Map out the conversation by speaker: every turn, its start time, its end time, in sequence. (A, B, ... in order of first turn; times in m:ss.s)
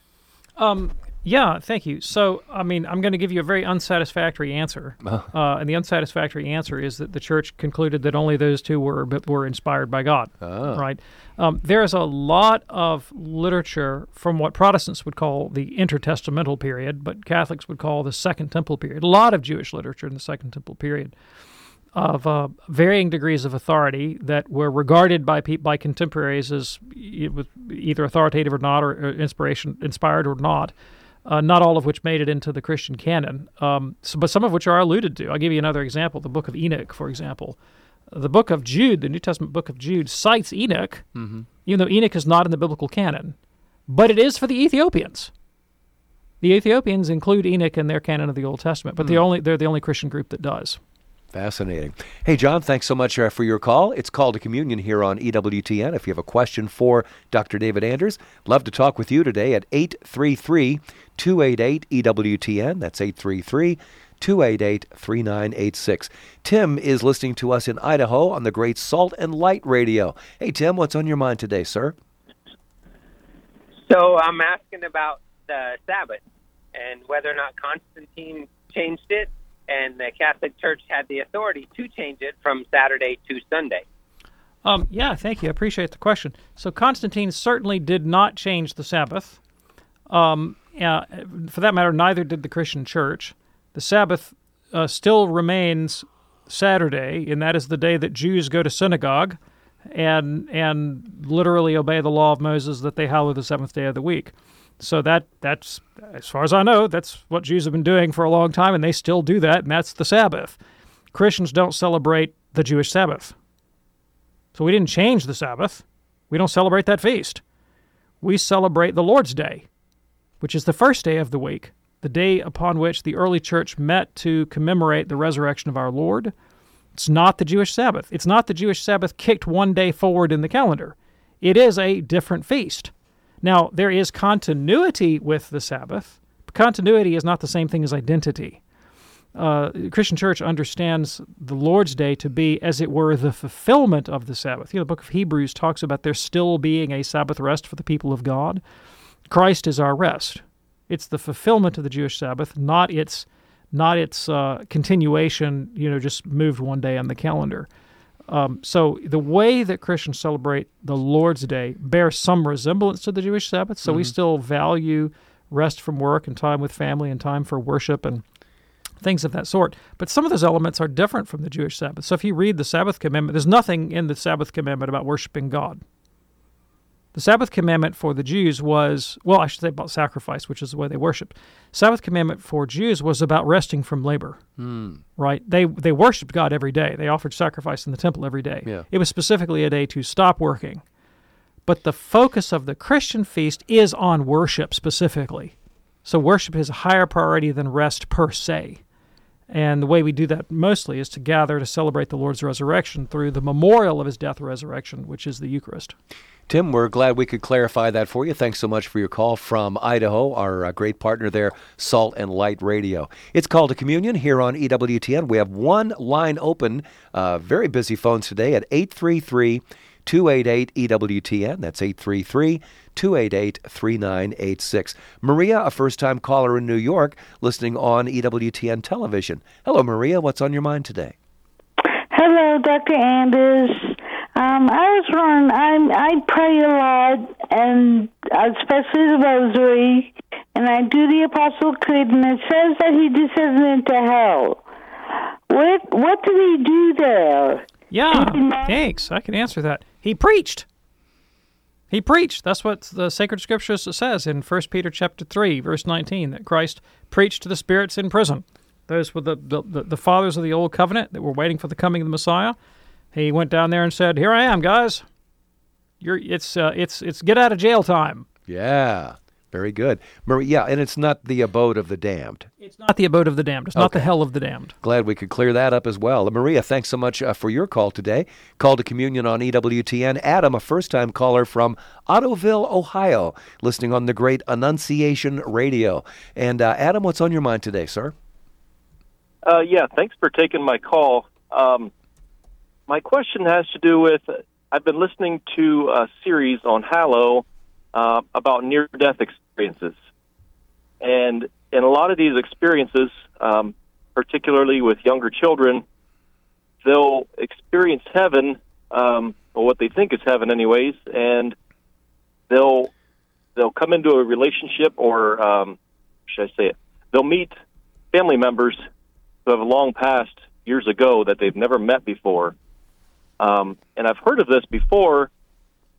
0:00.6-0:21.1 A
0:10.4-0:10.8 B
0:21.9-0:30.7 A
0:31.2-0:37.6 A
0:38.1-0:41.1 A
0:41.2-0:41.5 B
0:41.6-0:43.4 A
0:43.9-0:45.3 A
0:46.4-0:50.8 A
0:51.3-1:11.9 B
1:13.9-1:16.2 C
1:16.7-1:23.8 C
1:24.6-1:29.4 A
1:30.1-1:39.4 A
1:39.9-1:50.6 A
1:51.1-1:53.3 A
1:54.5-1:57.4 A
1:58.2-1:59.7 A
2:00.4-2:06.3 A
2:06.9-2:18.6 A
2:19.3-2:28.6 A
2:29.3-2:37.7 A
2:38.3-2:48.2 A
2:43.8-2:44.1 B
2:49.0-2:55.8 A
2:57.1-3:04.4 A
3:04.6-3:05.0 B
3:05.2-3:10.8 A
3:11.7-3:15.5 A
3:16.0-3:18.8 A
3:19.5-3:25.9 A
3:26.5-3:51.1 B
3:52.1-4:04.6 D
4:05.5-4:08.7 D
4:07.9-4:10.6 A
4:11.9-4:22.6 A
4:23.1-4:25.0 A
4:26.0-4:28.3 A
4:28.5-4:32.5 B
4:32.6-4:34.7 A
4:33.7-4:34.1 B
4:34.8-4:48.1 B
4:49.4-4:51.9 E
4:52.9-4:59.9 E
5:01.0-5:05.8 E
5:06.8-5:11.5 E
5:12.5-5:12.9 E
5:13.6-5:15.8 E
5:16.3-5:17.6 E
5:18.1-5:18.8 E
5:19.4-5:22.5 E
5:23.4-5:25.3 E